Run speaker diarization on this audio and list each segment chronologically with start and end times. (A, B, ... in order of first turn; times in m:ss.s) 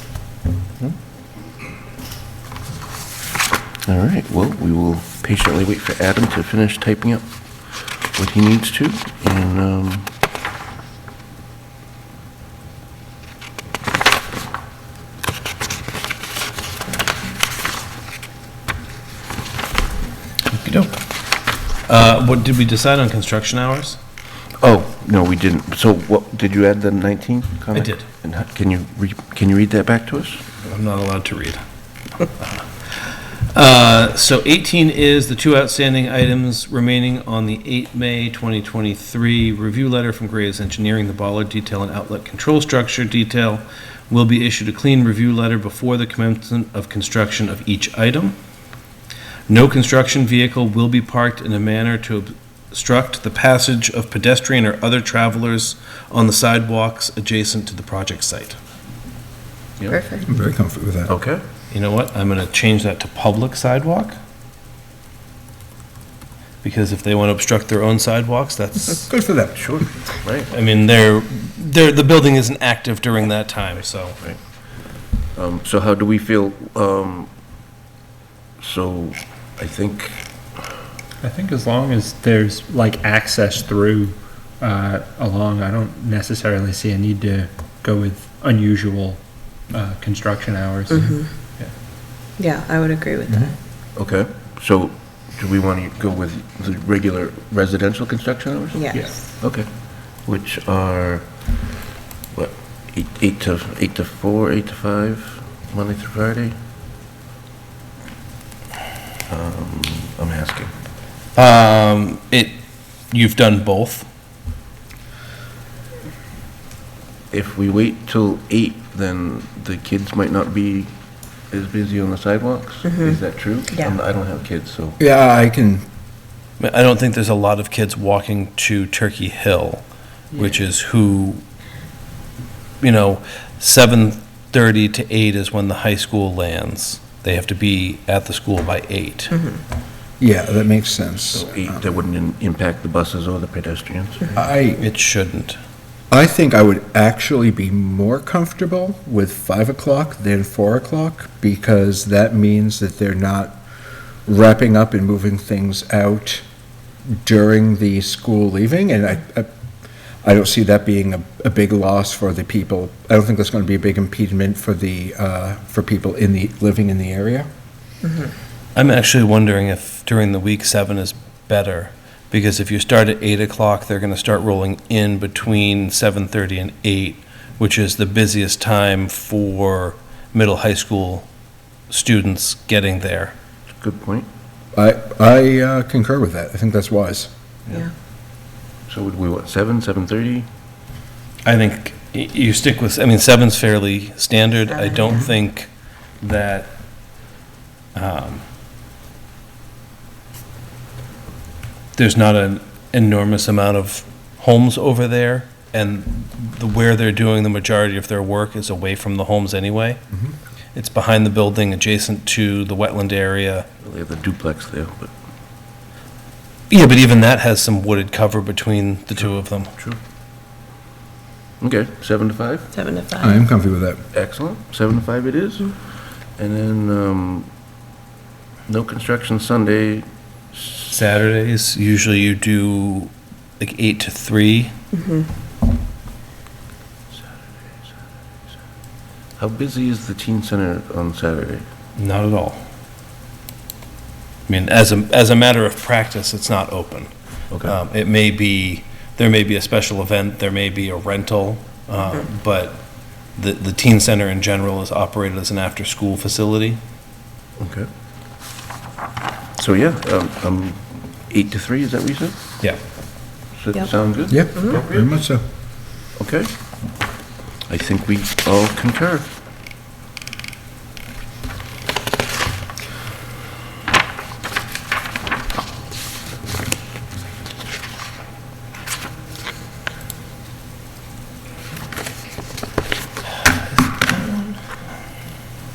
0:03.8-0:07.2 A
0:08.1-0:10.1 A
0:20.5-0:20.9 B
0:21.9-0:24.0 B
0:24.6-0:30.4 A
0:27.7-0:28.1 B
0:30.6-0:31.6 B
0:32.2-0:48.4 B
0:49.5-0:58.6 B
0:59.9-1:00.3 C
1:00.3-1:01.1 D
1:01.1-1:01.4 A
1:01.7-1:04.2 B
1:06.6-1:09.1 B
1:09.1-1:09.8 D
1:09.6-1:10.5 A
1:10.5-1:14.2 B
1:15.4-1:17.3 A
1:18.6-1:20.2 A
1:21.2-1:31.7 E
1:30.9-1:31.3 C
1:32.4-1:33.5 C
1:34.0-1:39.7 A
1:38.8-1:39.2 C
1:40.2-1:41.2 A
1:42.3-1:46.6 A
1:49.3-1:50.7 A
1:51.3-1:52.6 B
1:53.1-1:54.1 B
1:57.3-2:00.9 A
2:01.5-2:05.0 A
2:02.9-2:03.1 C
2:05.0-2:05.8 D
2:06.6-2:11.4 B
2:12.8-2:19.4 B
2:20.2-2:22.0 D
2:21.3-2:24.3 A
2:24.3-2:24.8 D
2:24.8-2:25.6 B
2:26.1-2:33.6 D
2:34.2-2:36.4 D
2:37.2-2:39.5 D
2:40.2-2:47.5 D
2:48.0-2:48.3 C
2:48.8-3:01.3 B
3:01.9-3:03.3 B
3:03.8-3:04.3 A
3:04.8-3:07.3 D
3:08.9-3:10.5 A
3:11.4-3:15.7 B
3:14.7-3:15.2 C
3:16.2-3:16.8 B
3:17.9-3:18.4 B
3:22.0-3:30.0 B
3:30.8-3:33.7 B
3:33.8-3:35.1 A
3:36.7-3:39.7 B
3:41.6-3:42.7 A
3:42.7-3:43.4 C
3:43.2-3:44.0 D
3:44.1-3:45.8 A
3:46.4-3:47.5 A
3:48.7-3:50.9 A
3:50.9-3:54.8 B
3:54.9-3:55.3 C
3:59.4-4:01.6 A
4:02.0-4:02.6 B
4:04.5-4:07.1 B
4:07.6-4:12.8 B
4:13.4-4:16.8 B
4:17.6-4:17.9 A
4:19.6-4:22.4 A
4:23.6-4:25.2 A
4:24.3-4:25.4 D
4:26.2-4:26.5 A
4:27.7-4:29.3 A
4:43.4-4:44.6 B